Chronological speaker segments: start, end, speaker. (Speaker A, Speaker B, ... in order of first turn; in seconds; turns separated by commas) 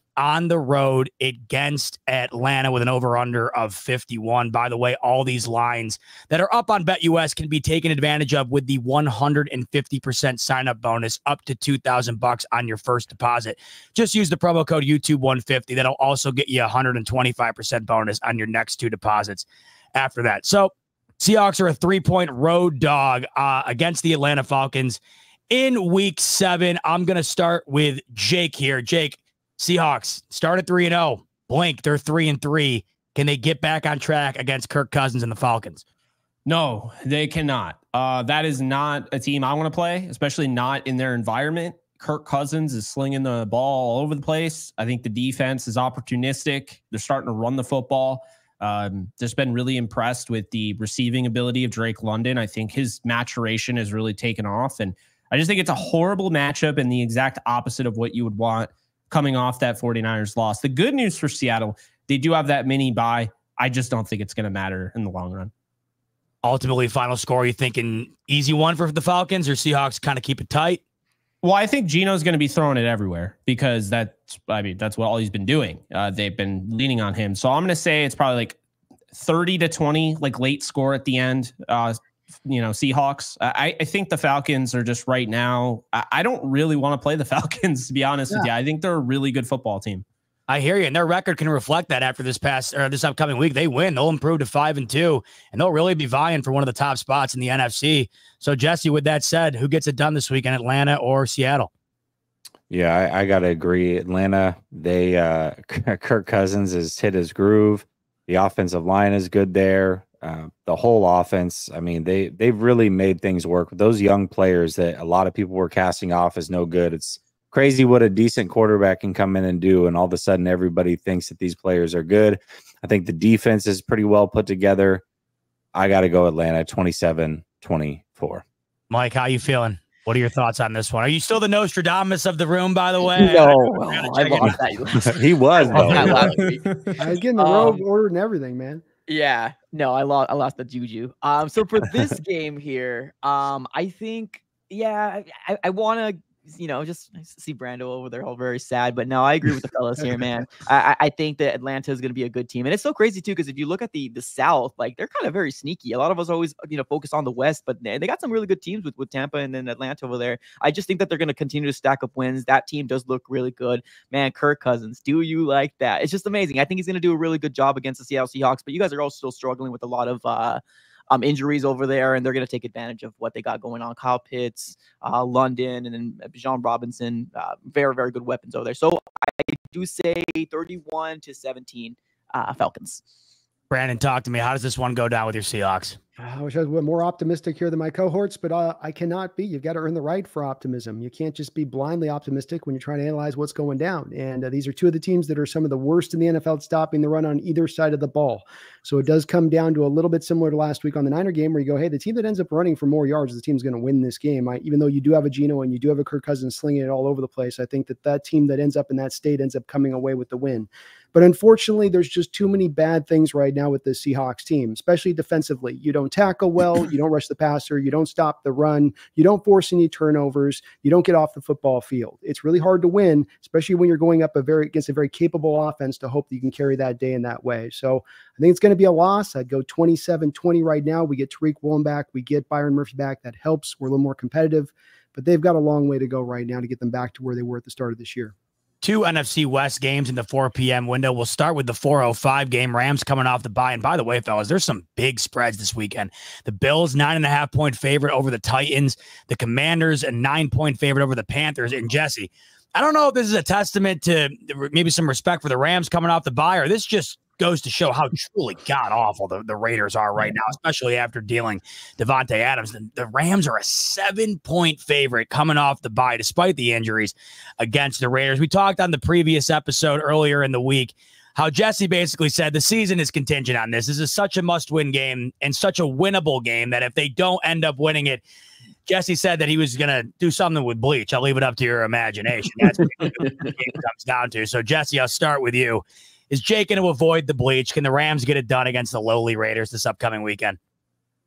Speaker A: 0.2-35.8, Speaker B: 36.5-65.5, Speaker A: 66.4-70.8, Speaker B: 71.4-78.6, Speaker B: 79.1-90.0, Speaker A: 90.5-101.7, Speaker C: 102.7-125.0, Speaker C: 125.7-128.4, Speaker A: 128.9-134.6, Speaker D: 133.0-136.7, Speaker C: 135.1-136.2, Speaker B: 135.9-136.9, Speaker E: 137.0-138.8, Speaker D: 137.3-137.8, Speaker D: 139.1-183.0, Speaker A: 183.7-186.0, Speaker E: 186.2-238.3, Speaker A: 238.8-278.2, Speaker A: 278.9-290.6